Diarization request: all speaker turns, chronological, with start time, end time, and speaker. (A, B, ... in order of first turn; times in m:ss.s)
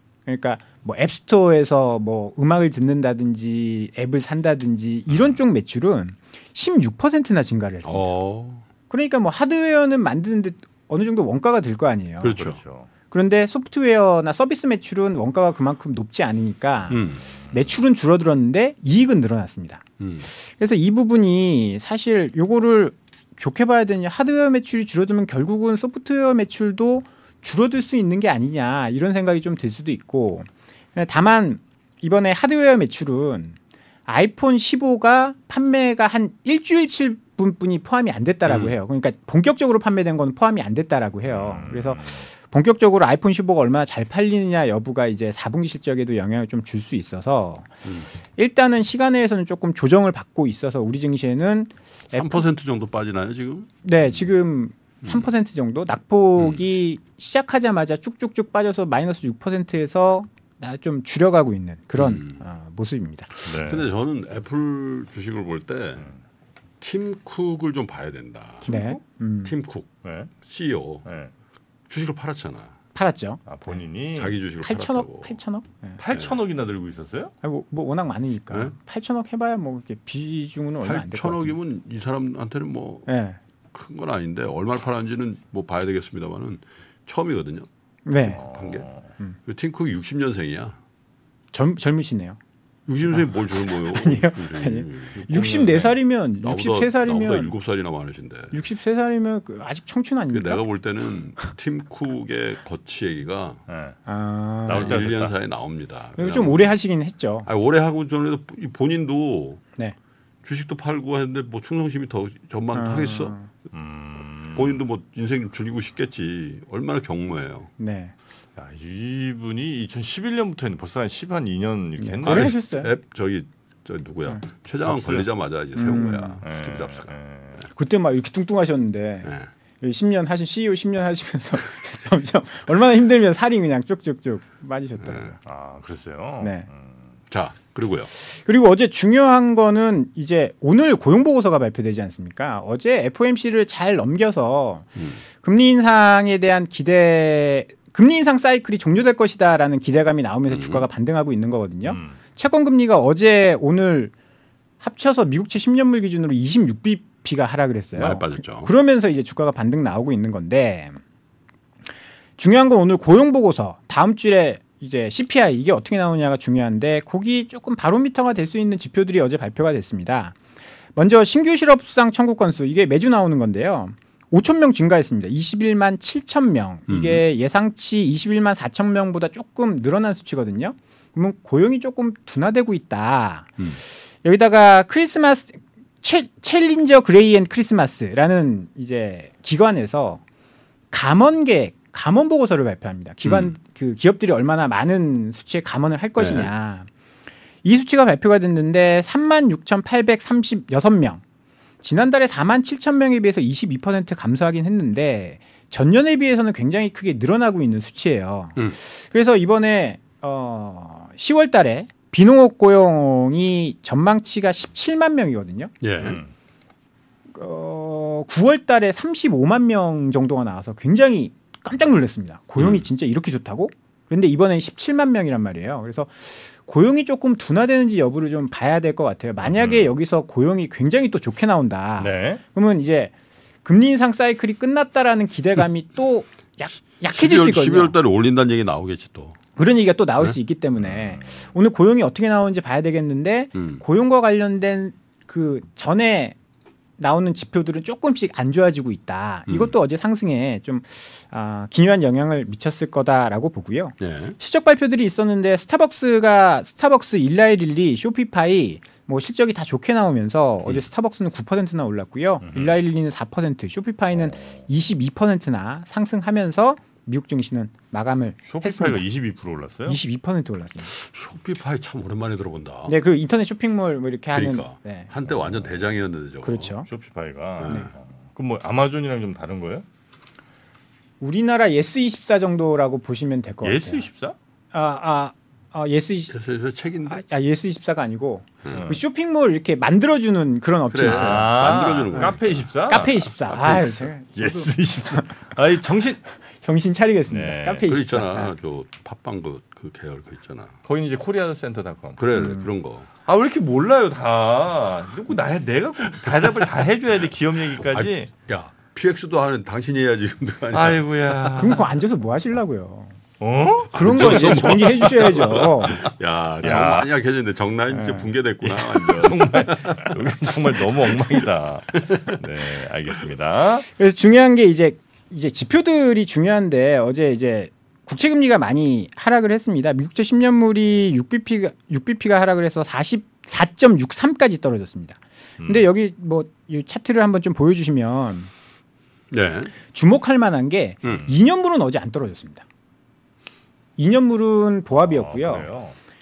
0:00.3-0:08.1 A
0:05.1-0:05.4 B
0:07.8-0:08.6 C
0:08.9-0:12.4 A
0:12.2-0:12.6 C
0:12.4-0:12.9 B
0:13.1-0:33.6 A
0:16.9-0:17.2 C
0:20.0-0:20.3 C
0:34.1-0:47.8 A
0:41.3-0:42.3 B
0:48.4-0:52.4 A
0:52.1-0:54.3 C
0:53.8-1:03.4 A
1:02.0-1:02.4 C
1:03.4-1:06.1 C
1:03.5-1:03.9 B
1:06.8-1:08.8 C
1:08.6-1:09.5 A
1:08.7-1:09.0 B
1:09.4-1:09.9 C
1:10.0-1:10.3 B
1:10.4-1:11.0 C
1:11.0-1:11.3 B
1:11.9-1:12.8 C
1:13.0-1:13.4 A
1:13.5-1:14.3 B
1:14.2-1:15.4 C
1:14.6-1:16.0 A
1:16.0-1:17.3 B
1:16.1-1:16.4 C
1:17.4-1:21.6 A
1:20.8-1:23.1 C
1:23.1-1:23.4 A
1:23.7-1:27.7 C
1:28.1-1:28.4 A
1:28.2-1:28.9 C
1:28.2-1:29.1 B
1:29.5-1:30.8 C
1:31.5-1:32.4 A
1:32.9-1:35.3 C
1:33.1-1:37.5 A
1:35.2-1:35.9 B
1:36.4-1:38.6 C
1:38.5-1:40.6 A
1:40.3-1:43.6 C
1:43.7-1:44.0 B
1:44.1-1:45.0 A
1:44.6-1:45.4 B
1:44.7-1:46.7 C
1:46.2-1:47.5 A
1:47.4-1:49.6 C
1:50.4-1:53.4 C
1:52.8-1:53.5 A
1:53.7-1:54.8 B
1:54.5-1:57.7 C
1:57.8-1:58.1 A
1:58.6-2:02.6 B
2:02.0-2:02.9 A
2:02.2-2:07.1 C
2:04.8-2:05.3 B
2:05.8-2:06.4 A
2:06.4-2:07.6 B
2:07.7-2:15.4 A
2:09.2-2:09.5 C
2:15.0-2:15.3 C
2:15.4-2:17.0 B
2:16.4-2:16.7 A
2:17.3-2:18.1 C
2:18.1-2:34.1 A
2:25.0-2:25.2 C
2:30.5-2:30.9 C
2:31.8-2:32.2 B
2:34.8-2:41.0 A
2:38.0-2:38.7 C
2:42.4-2:50.4 A
2:51.0-3:03.6 A
2:56.9-2:57.2 C
3:04.2-3:10.2 A
3:10.9-3:16.9 A
3:13.2-3:13.5 C
3:16.2-3:16.5 C
3:17.6-3:21.2 A
3:21.8-3:35.7 A
3:35.8-3:36.2 C
3:36.0-3:36.3 B
3:37.3-3:53.1 A
3:49.5-3:49.9 B
3:52.0-3:52.4 B
3:53.6-3:58.0 A
3:57.1-3:59.4 C
3:59.6-4:06.4 A
4:00.8-4:01.4 B
4:03.6-4:03.8 C
4:07.0-4:29.0 A
4:09.5-4:09.7 C
4:14.0-4:14.4 C
4:22.4-4:22.8 B
4:24.1-4:24.6 B
4:28.5-4:30.0 B
4:29.9-4:30.9 A
4:30.8-4:33.0 C
4:32.9-4:35.1 A
4:34.3-4:36.8 C
4:35.3-4:35.7 B
4:36.4-4:36.9 A
4:36.9-4:39.8 B
4:37.6-4:37.9 C
4:41.2-4:44.1 A
4:43.6-4:44.4 B
4:44.7-4:46.3 A
4:46.3-4:47.2 C
4:47.1-4:55.3 A
4:48.6-4:48.9 C
4:48.7-4:49.0 B
4:50.9-4:52.7 C
4:51.0-4:53.3 B
4:53.4-4:54.1 C
4:54.4-4:56.3 B
4:56.4-4:58.5 A
4:57.3-4:57.9 B
4:57.8-5:00.8 C
5:00.9-5:02.2 B
5:02.2-5:03.1 C
5:02.4-5:02.7 A
5:03.3-5:08.3 B
5:06.2-5:06.9 C
5:07.8-5:11.4 C
5:10.7-5:11.9 B
5:11.6-5:13.1 A
5:13.4-5:16.1 B
5:13.9-5:22.4 C
5:13.9-5:16.0 A
5:16.6-5:17.1 B
5:17.9-5:18.3 A
5:18.6-5:23.9 B
5:23.9-5:38.5 A
5:35.6-5:35.9 B
5:39.3-5:39.7 C
5:39.9-5:42.6 A
5:44.0-5:45.7 A
5:45.0-5:46.0 B